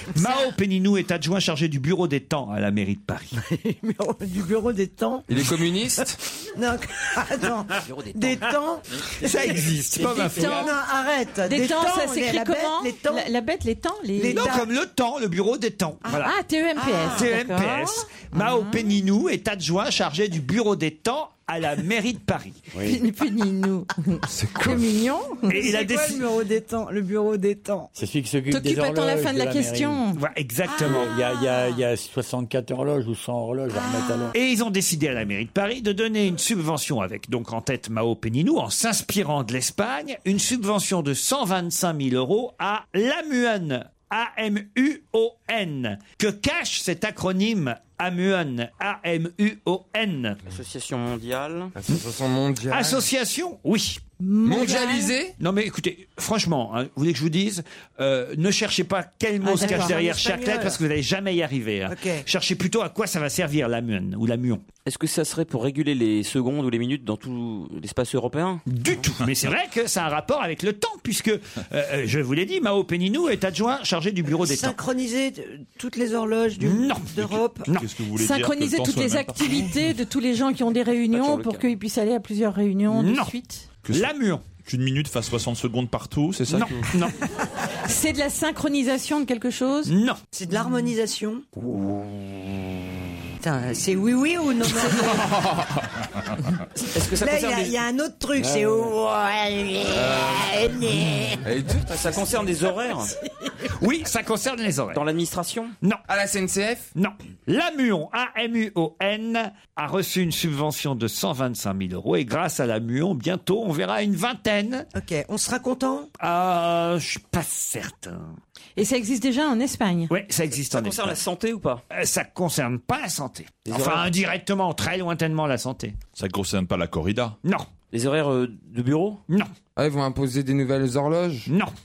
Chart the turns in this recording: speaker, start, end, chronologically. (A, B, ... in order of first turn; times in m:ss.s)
0:00.1-0:03.3 A
0:00.2-0:00.5 B
0:03.4-0:13.3 B
0:05.3-0:06.2 C
0:07.8-0:08.6 D
0:09.2-0:10.7 A
0:10.0-0:10.8 E
0:11.4-0:14.7 E
0:14.2-0:14.6 B
0:14.3-0:16.3 A
0:16.1-0:18.8 E
0:16.8-0:17.2 B
0:17.0-0:22.6 A
0:22.7-0:23.0 F
0:22.8-0:25.6 E
0:24.3-0:24.8 C
0:25.5-0:27.9 B
0:25.5-0:26.2 A
0:27.9-0:30.0 F
0:28.5-0:30.2 E
0:30.1-0:31.1 A
0:30.6-0:31.8 B
0:30.8-0:34.3 F
0:33.7-0:34.3 B
0:34.3-0:50.4 A
0:50.5-0:51.7 D
0:51.8-0:53.0 C
0:52.7-0:54.1 A
0:54.2-0:55.2 E
0:54.4-0:55.4 C
0:55.4-1:04.6 A
0:59.4-1:00.0 E
0:59.6-1:00.8 B
1:01.9-1:02.2 B
1:04.8-1:08.6 D
1:08.7-1:14.8 A
1:14.4-1:17.7 B
1:16.6-1:17.9 A
1:17.8-1:19.8 G
1:18.1-1:23.7 E
1:21.1-1:21.7 D
1:22.9-1:23.3 A
1:23.8-1:26.8 G
1:23.9-1:24.5 A
1:26.5-1:27.2 A
1:27.8-1:29.9 E
1:29.9-1:30.2 A
1:30.3-1:31.9 B
1:33.4-1:35.4 B
1:35.2-1:35.7 C
1:36.8-1:41.4 B
1:36.9-1:37.8 D
1:38.4-1:38.9 F
1:39.9-1:40.6 C
1:41.4-1:42.0 C
1:41.8-1:43.1 D
1:43.7-1:45.0 A
1:44.9-1:45.7 D
1:46.1-1:46.9 C
1:46.9-1:54.9 A
1:54.9-1:56.1 B
1:56.2-1:58.3 A
1:58.8-2:00.1 E
2:00.1-2:01.2 A
2:00.6-2:01.8 D
2:01.9-2:06.0 A
2:03.6-2:04.1 D
2:06.2-2:07.4 G
2:07.9-2:09.2 D
2:09.8-2:11.5 C
2:11.5-2:11.7 A